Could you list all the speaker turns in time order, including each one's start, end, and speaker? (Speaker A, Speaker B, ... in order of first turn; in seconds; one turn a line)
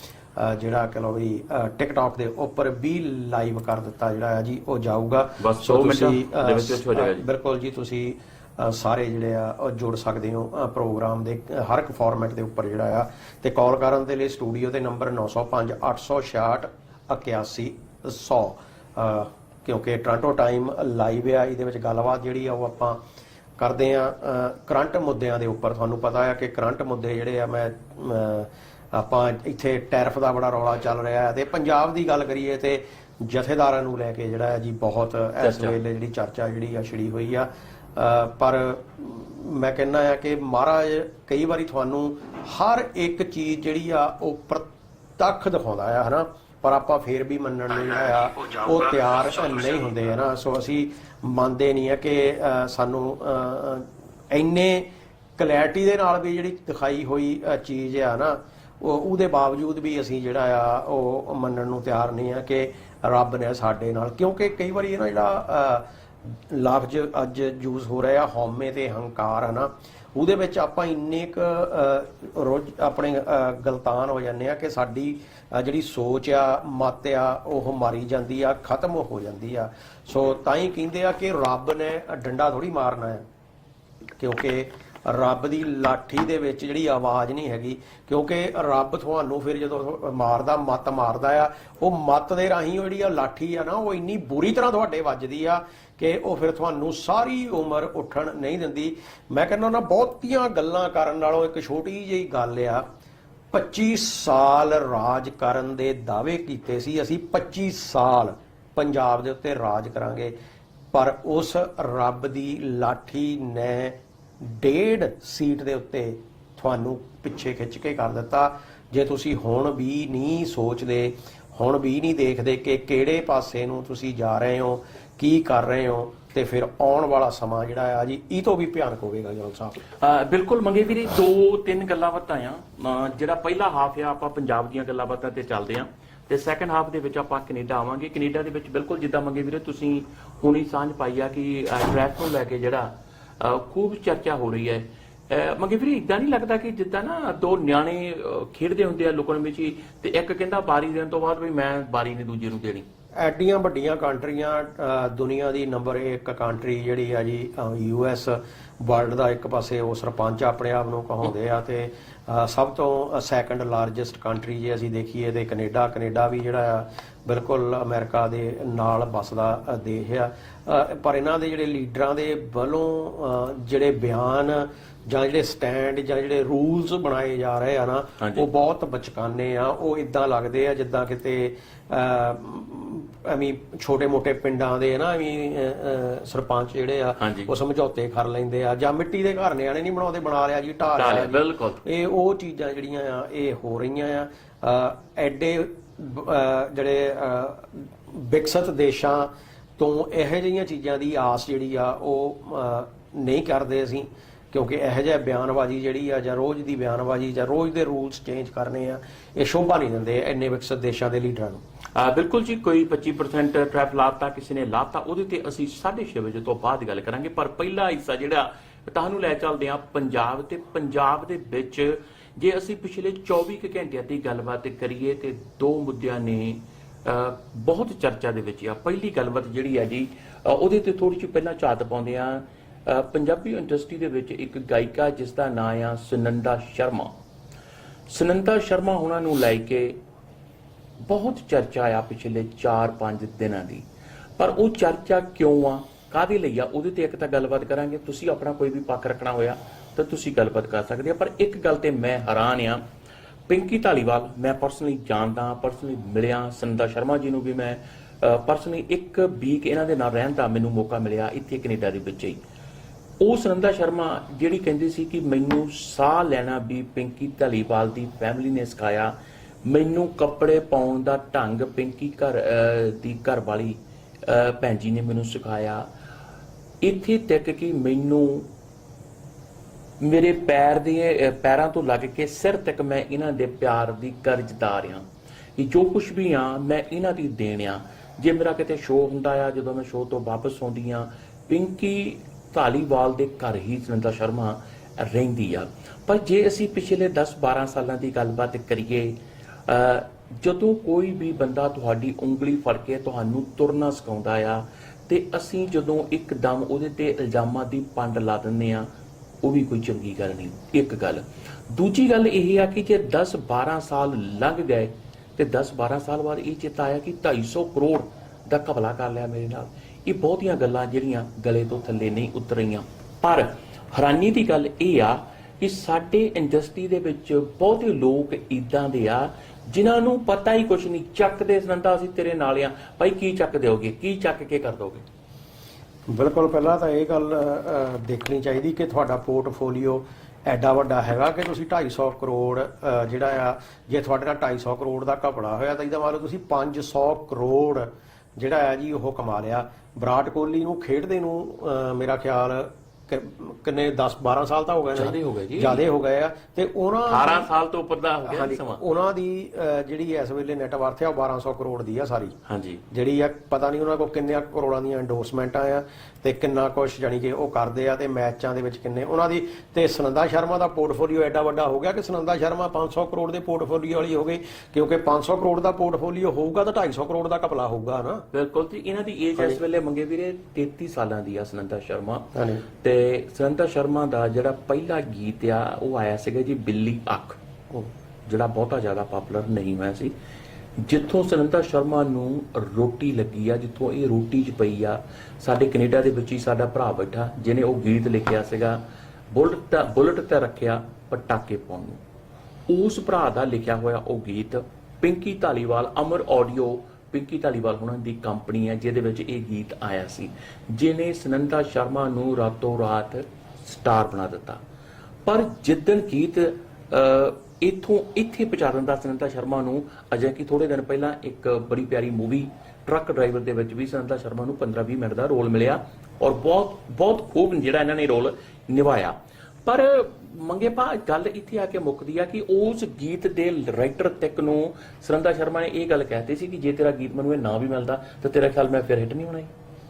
Speaker A: 0.3-23.0
Speaker B: 5.4-7.3
Speaker A: 23.6-44.7
Speaker B: 35.4-35.8
Speaker A: 45.2-54.9
Speaker A: 55.4-65.8
Speaker A: 66.5-83.2
Speaker A: 84.2-102.8
Speaker A: 103.5-110.3
Speaker A: 110.9-129.8
Speaker B: 130.0-152.8
Speaker A: 153.2-211.6
Speaker B: 187.2-187.5
Speaker B: 190.9-191.8
Speaker B: 211.9-237.1
Speaker B: 238.1-240.0
Speaker B: 241.1-243.8
Speaker B: 244.4-252.8
Speaker B: 253.5-262.4
Speaker B: 263.2-269.1
Speaker B: 269.6-275.9
Speaker B: 276.8-278.5
Speaker B: 280.0-285.0
Speaker B: 285.6-299.1
Speaker B: 299.6-308.9
Speaker B: 309.4-335.0
Speaker A: 336.1-357.5
Speaker B: 354.9-355.8
Speaker B: 357.1-358.8
Speaker A: 358.2-362.4
Speaker B: 362.5-362.8
Speaker A: 362.9-378.2
Speaker B: 378.3-382.3
Speaker A: 382.3-382.6
Speaker B: 382.8-387.4
Speaker B: 388.2-390.1
Speaker B: 390.8-398.8
Speaker B: 399.3-402.0
Speaker B: 402.7-414.6
Speaker B: 415.2-439.5